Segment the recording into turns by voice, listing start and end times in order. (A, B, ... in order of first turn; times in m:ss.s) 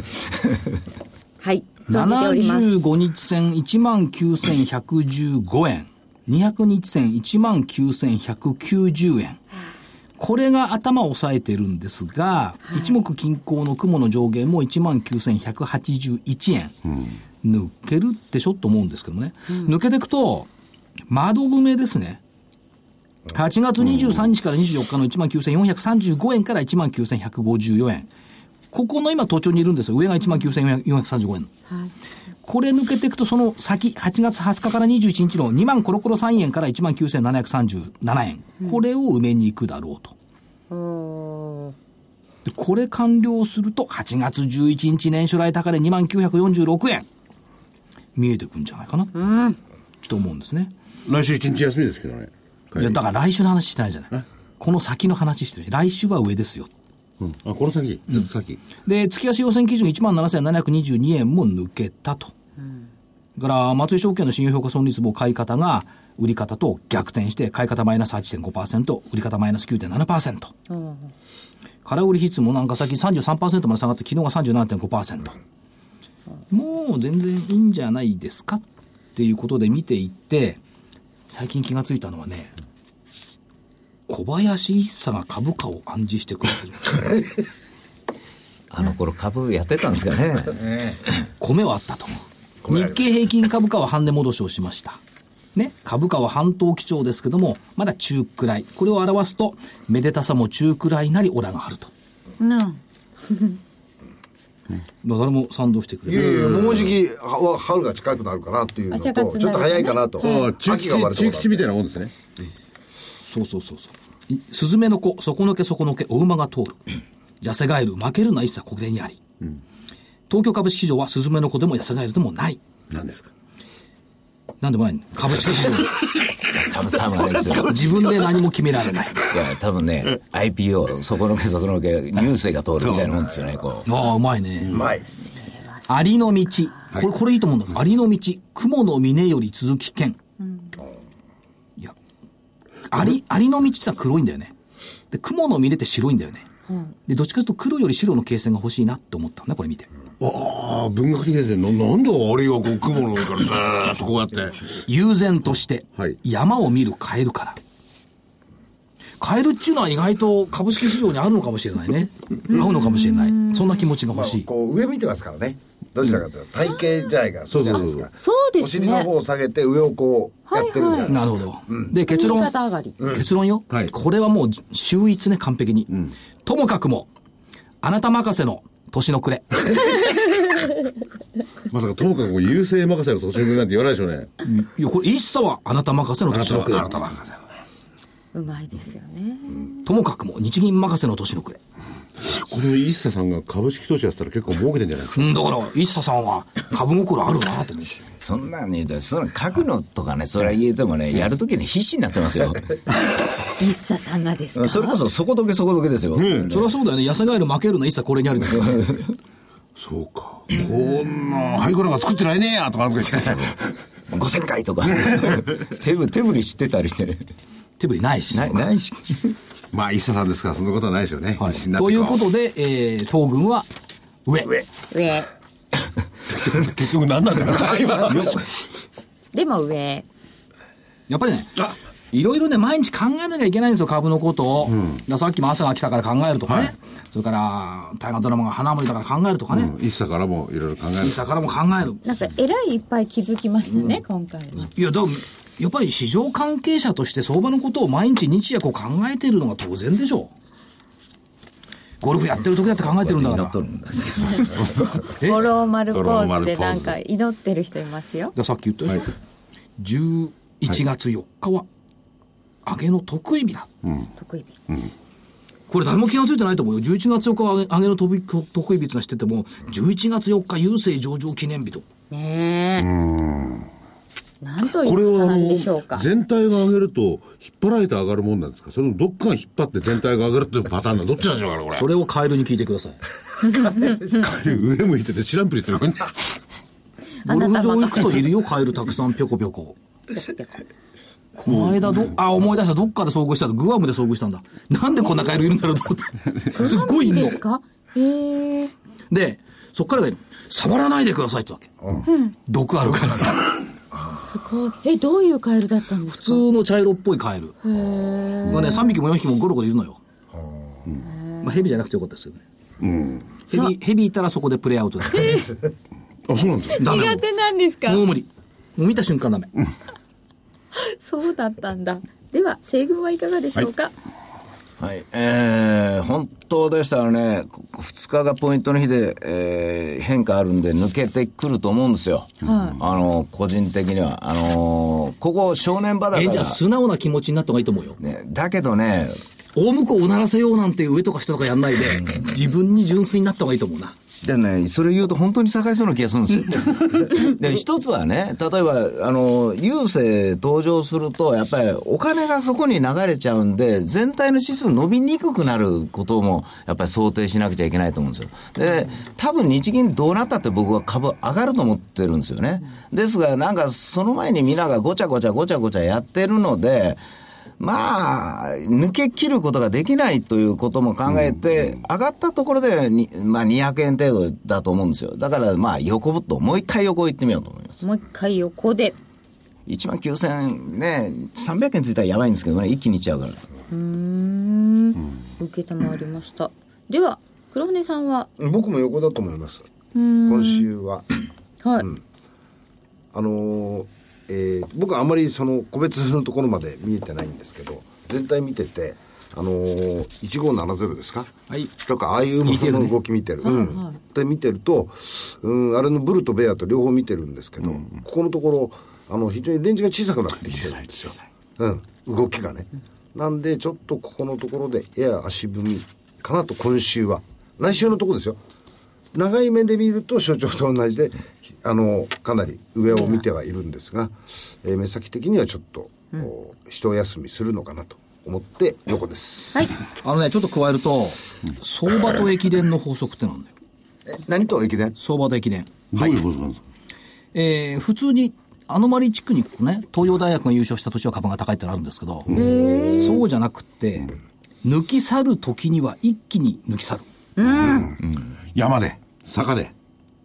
0:01.4-0:02.7 A
0:01.9-0:09.4 B
0:10.2-0:16.8 B
0:17.4-0:20.5 B
0:21.1-0:22.2 B
0:23.3-0:28.1 B
0:28.7-0:31.5 B
0:32.4-0:40.2 B
0:40.7-0:41.8 A
0:42.4-0:47.1 B
0:48.2-0:49.1 B
0:49.2-0:49.6 A
0:50.1-0:50.7 B
0:51.1-0:53.0 C
0:52.8-0:56.7 B
0:57.2-0:58.6 C
0:58.8-1:02.3 B
1:03.4-1:10.5 B
1:10.7-1:11.1 A
1:11.8-1:15.4 B
1:16.5-1:18.6 B
1:19.2-1:20.6 B
1:21.3-1:22.5 B
1:24.1-1:27.0 B
1:28.7-1:30.6 D
1:31.4-1:35.0 B
1:32.6-1:32.9 E
1:35.6-1:41.9 B
1:42.4-1:43.6 A
1:45.0-1:46.4 B
1:46.1-1:51.7 E
1:46.2-1:46.9 C
1:48.9-1:50.5 A
1:50.2-1:52.1 C
1:53.2-1:56.8 B
1:57.4-1:59.2 B
2:00.3-2:02.6 B
2:02.9-2:03.3 C
2:04.6-2:05.9 B
2:06.5-2:07.8 D
2:07.6-2:09.3 B
2:09.3-2:13.9 D
2:13.8-2:14.8 B
2:14.7-2:15.1 E
2:15.2-2:15.9 A
2:15.9-2:20.2 B
2:20.4-2:20.8 A
2:22.9-2:24.5 B
2:25.1-2:26.5 B
2:26.7-2:26.9 A
2:27.1-2:29.9 B
2:30.2-2:34.6 C
2:34.9-2:37.6 B
2:39.2-2:44.5 B
2:42.5-2:43.8 A
2:44.1-2:51.9 E
2:47.5-2:48.1 C
2:48.2-2:49.1 A
2:50.5-2:51.1 A
2:51.1-2:52.5 B
2:52.1-2:53.0 A
2:53.0-2:55.9 B
2:56.4-2:57.1 B
2:57.8-2:59.8 B
3:01.7-3:04.3 C
3:04.4-3:07.1 B
3:06.3-3:07.6 C
3:08.3-3:09.8 A
3:09.8-3:11.6 B
3:12.2-3:15.3 C
3:15.1-3:18.0 B
3:18.2-3:22.8 D
3:23.6-3:25.0 A
3:24.6-3:26.7 D
3:26.1-3:26.6 C
3:26.5-3:29.0 B
3:28.6-3:29.1 D
3:29.8-3:33.7 C
3:33.2-3:33.5 D
3:34.1-3:37.3 D
3:34.8-3:35.4 C
3:37.8-3:38.6 B
3:38.3-3:39.4 D
3:39.7-3:42.2 C
3:41.4-3:43.7 B
3:44.3-3:44.6 B
3:44.9-3:45.3 A
3:46.3-3:48.6 C
3:49.3-3:50.1 A
3:51.1-3:59.7 B
3:59.5-4:01.2 C
4:01.0-4:02.0 B
4:02.0-4:04.7 A
4:04.8-4:10.3 B
4:12.0-4:13.6 B
4:12.9-4:15.0 D
4:15.1-4:15.4 B
4:15.2-4:18.3 A
4:15.9-4:17.0 C
4:18.4-4:19.1 B
4:19.8-4:21.7 B
4:22.6-4:23.7 B
4:23.8-4:24.1 C
4:24.2-4:24.5 A
4:25.7-4:31.8 B
4:32.1-4:32.9 A
4:32.8-4:33.7 C
4:34.4-4:36.1 A
4:34.8-4:41.9 C
4:41.7-4:43.0 B
4:43.5-4:44.1 A
4:43.8-4:46.4 C
4:47.2-4:48.2 A
4:47.3-4:49.8 B
4:50.1-4:50.6 A
4:51.4-4:57.4 B
4:51.5-4:52.1 C
4:56.5-4:58.7 A
4:59.1-5:01.7 B
5:01.8-5:02.1 E
5:02.1-5:02.4 A
5:02.5-5:03.4 B
5:03.9-5:04.3 E
5:04.2-5:06.4 A
5:06.1-5:07.6 B
5:07.6-5:09.0 A
5:08.5-5:10.0 B
5:08.5-5:08.8 C
5:10.3-5:11.0 E
5:11.0-5:11.7 A
5:11.4-5:12.4 B
5:12.8-5:13.3 C
5:13.5-5:15.4 B
5:15.1-5:15.6 A
5:16.3-5:16.9 C
5:16.8-5:17.2 B
5:16.8-5:18.0 A
5:17.9-5:19.5 B
5:20.7-5:23.9 A
5:24.8-5:36.6 D
5:32.4-5:32.8 A
5:36.1-5:38.0 B
5:38.0-5:39.2 D
5:39.6-5:44.0 B
5:44.2-6:07.0 D
6:07.6-6:17.8 D
6:17.8-6:19.0 A
6:19.7-6:23.4 D
6:23.7-6:28.3 A
6:28.4-6:29.7 E
6:30.0-6:30.7 A
6:30.2-6:31.1 E
6:31.6-6:31.9 A
6:33.1-6:58.4 E
6:42.4-6:43.0 B
6:43.4-6:44.0 A
6:50.5-6:51.0 C
6:59.1-7:09.7 E
7:02.9-7:03.2 A
7:10.0-7:13.5 B
7:14.1-7:15.0 E
7:15.0-7:15.8 B
7:15.9-7:16.6 C
7:17.3-7:27.0 B
7:22.3-7:23.2 A
7:27.4-7:28.0 A
7:27.7-7:27.9 C
7:28.5-7:29.7 C